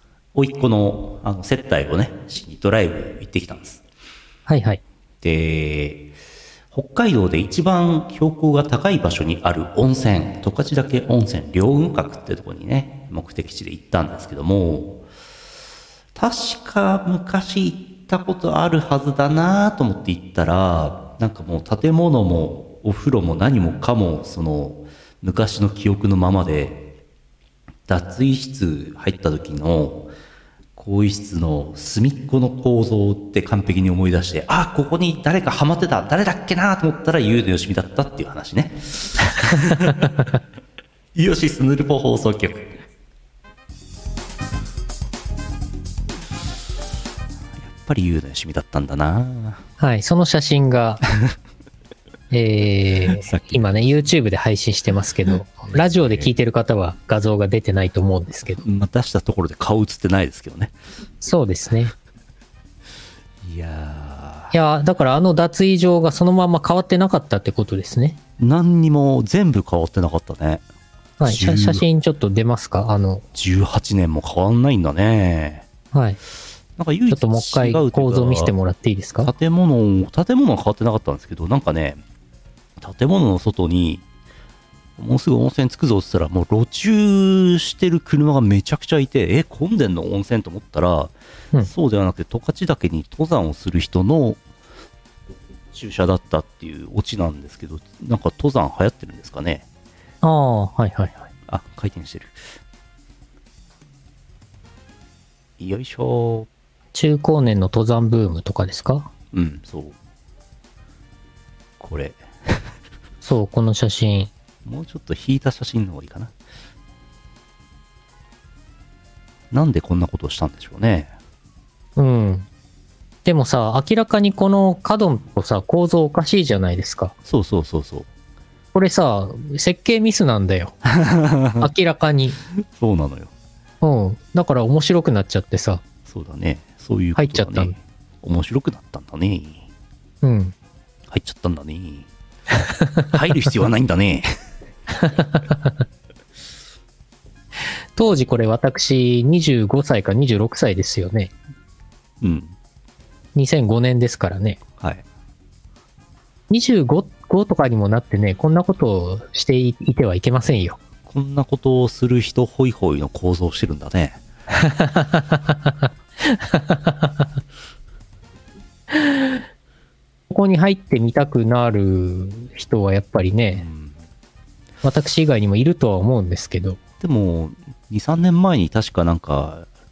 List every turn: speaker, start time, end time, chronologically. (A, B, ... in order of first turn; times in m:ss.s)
0:00.4-0:03.8 A
0:04.5-0:04.8 B
0:05.2-0:06.1 A
0:06.7-0:15.0 A
0:16.2-0:26.9 A
0:27.9-0:30.1 A
0:30.8-0:40.3 A
0:41.2-0:42.7 A
0:47.6-0:49.6 A
0:49.8-0:51.0 B
0:52.3-0:58.6 B
0:53.2-0:53.6 A
0:55.7-0:56.3 A
0:58.6-1:00.7 A
1:01.2-1:01.9 B
1:03.4-1:04.5 A
1:04.5-1:08.2 B
1:08.4-1:10.6 A
1:11.2-1:13.2 B
1:11.2-1:11.8 A
1:13.4-1:15.6 A
1:15.9-1:16.2 B
1:16.8-1:18.5 A
1:17.1-1:19.3 B
1:19.2-1:22.0 A
1:22.8-1:24.0 A
1:25.0-1:34.4 A
1:35.7-1:39.6 A
1:40.2-1:41.3 B
1:41.5-1:42.4 A
1:45.6-1:46.5 A
1:46.9-1:49.1 B
1:49.3-1:50.0 A
1:51.8-1:52.7 A
1:53.2-1:54.3 B
1:54.6-1:56.3 A
1:59.5-2:01.1 A
2:02.0-2:02.5 B
2:03.2-2:07.1 B
2:07.3-2:08.1 A
2:08.7-2:10.8 B
2:10.8-2:11.7 A
2:11.6-2:12.4 B
2:12.5-2:13.3 A
2:13.8-2:15.8 B
2:16.1-2:19.7 A
2:17.2-2:17.7 B
2:20.2-2:20.6 B
2:21.1-2:22.1 A
2:23.0-2:24.3 A
2:25.0-2:25.7 B
2:28.0-2:31.3 B
2:32.2-2:32.6 A
2:33.4-2:34.6 B
2:36.5-2:40.8 B
2:41.1-2:44.2 A
2:44.5-2:47.3 B
2:48.9-2:49.3 B
2:50.3-2:53.6 B
2:53.5-2:54.0 A
2:54.8-2:56.8 B
2:57.0-2:59.7 A